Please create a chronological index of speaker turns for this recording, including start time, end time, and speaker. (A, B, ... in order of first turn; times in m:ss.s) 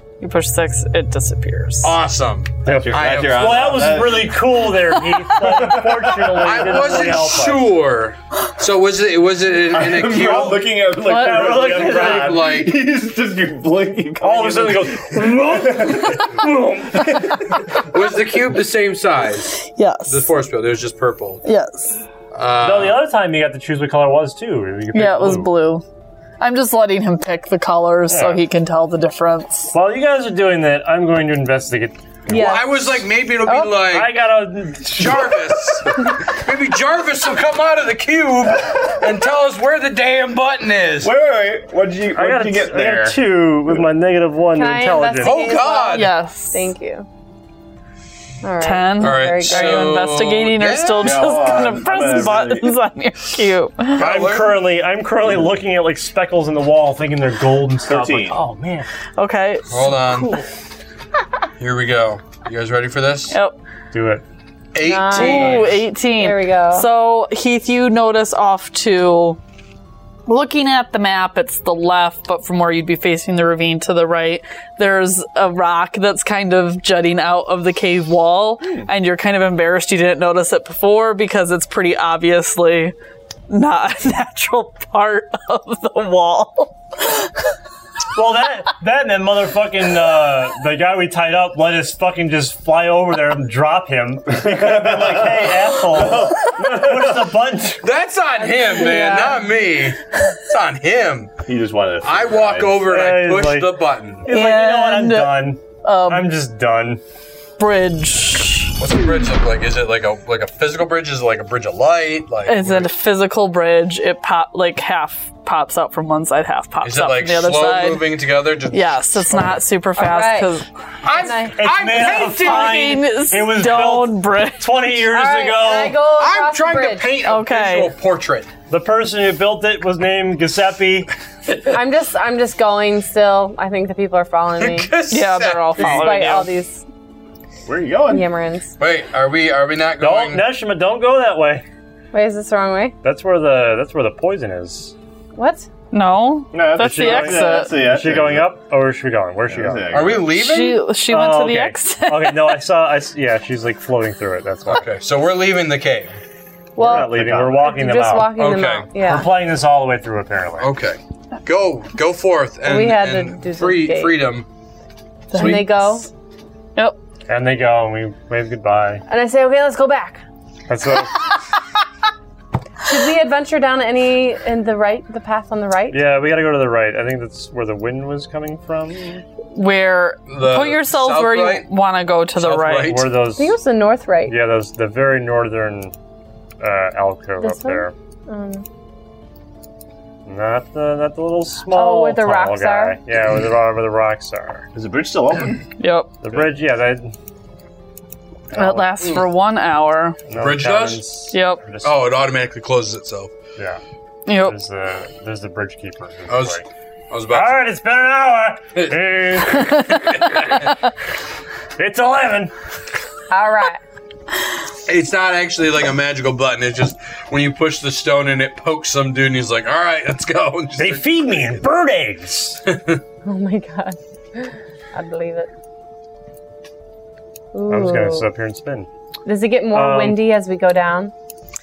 0:00.2-0:01.9 A
0:01.8-0:03.8 B
0:02.6-0:04.4 C
0:02.6-0:07.7 D
0:05.4-0:06.8 C
0:06.4-0:10.6 B
0:09.7-0:16.3 C
0:10.0-0:12.5 D
0:11.5-0:12.7 B
0:14.2-0:17.6 D
0:16.9-0:17.4 C
0:17.8-0:21.4 B
0:19.6-0:20.3 A
0:21.4-0:22.0 A
0:22.3-0:23.0 B
0:22.6-0:25.5 D
0:24.9-0:25.8 A
0:26.4-0:29.7 A
0:28.1-0:28.4 D
0:29.7-0:32.0 D
0:32.3-0:33.8 E
0:32.3-0:34.1 B
0:33.9-0:35.4 D
0:34.9-0:41.1 B
0:41.0-0:43.2 C
0:42.1-0:45.4 D
0:44.5-0:47.1 E
0:45.2-0:46.1 B
0:45.9-0:46.7 A
0:48.4-0:50.0 E
0:48.6-0:54.0 A
0:49.0-0:51.3 B
0:51.0-0:52.8 C
0:54.0-0:54.6 B
0:54.0-0:58.9 D
0:57.8-0:58.4 C
0:59.2-0:59.9 A
0:59.7-1:00.3 B
1:01.6-1:03.3 B
1:03.3-1:03.6 A
1:03.9-1:04.2 D
1:04.7-1:05.8 B
1:04.8-1:06.8 E
1:05.1-1:09.4 A
1:10.3-1:22.9 A
1:23.5-1:27.3 A
1:28.1-1:37.8 D
1:34.3-1:37.2 C
1:37.8-1:41.4 B
1:38.4-1:39.5 A
1:41.4-1:42.8 C
1:42.0-1:44.2 B
1:42.8-1:47.0 D
1:44.3-1:46.3 A
1:47.6-1:48.8 A
1:48.8-1:52.9 B
1:52.4-1:58.0 A
1:56.8-1:59.3 B
1:58.7-2:00.7 A
2:00.0-2:00.6 E
2:01.0-2:03.0 B
2:01.1-2:01.6 E
2:01.5-2:06.0 D
2:02.2-2:04.8 A
2:05.0-2:07.1 E
2:06.1-2:08.5 B
2:07.2-2:07.9 A
2:08.7-2:11.1 D
2:11.7-2:14.9 E
2:14.6-2:16.3 B
2:15.1-2:16.5 A
2:15.8-2:16.8 E
2:17.6-2:18.3 C
2:18.0-2:18.7 E
2:18.8-2:20.4 B
2:20.0-2:21.6 D
2:22.1-2:23.0 E
2:23.0-2:24.9 D
2:25.3-2:25.7 E
2:25.9-2:27.7 A
2:26.5-2:28.4 C
2:26.8-2:29.8 D
2:29.5-2:30.3 C
2:29.9-2:30.8 B
2:30.3-2:32.6 A
2:31.1-2:34.9 D
2:34.7-2:36.1 B
2:36.8-2:39.3 E
2:36.8-2:38.4 D
2:36.9-2:37.6 C
2:38.3-2:38.9 B
2:38.9-2:40.7 D
2:40.6-2:44.5 B
2:42.6-2:44.1 E
2:45.3-2:46.0 A
2:45.3-2:45.7 B
2:45.3-2:46.1 E
2:47.3-2:49.0 D
2:49.1-2:50.2 E
2:50.7-2:51.2 D
2:52.8-2:56.0 E
2:55.9-2:59.2 D
2:59.5-3:03.0 A
3:00.3-3:01.7 B
3:02.4-3:03.2 B
3:02.8-3:03.6 D
3:03.3-3:04.4 E
3:04.3-3:05.9 D
3:06.6-3:07.9 D
3:07.4-3:08.6 E
3:10.2-3:14.7 D
3:11.7-3:13.0 E
3:14.7-3:15.6 C
3:15.8-3:16.1 A
3:16.2-3:17.1 D
3:18.5-3:18.9 D
3:18.5-3:20.2 A
3:20.3-3:22.0 D
3:20.4-3:21.1 B
3:21.3-3:21.6 A
3:21.8-3:23.3 B
3:24.2-3:24.6 A
3:24.4-3:26.6 D
3:26.3-3:27.7 B
3:27.3-3:30.6 D
3:29.7-3:30.0 A
3:30.2-3:30.6 B
3:31.8-3:32.5 D
3:33.3-3:33.8 E
3:34.8-3:41.5 B
3:40.8-3:42.6 D
3:42.7-3:43.0 B
3:43.2-3:45.5 E
3:47.5-3:48.3 E
3:47.7-3:48.9 D
3:49.2-3:51.1 E
3:49.7-3:50.2 D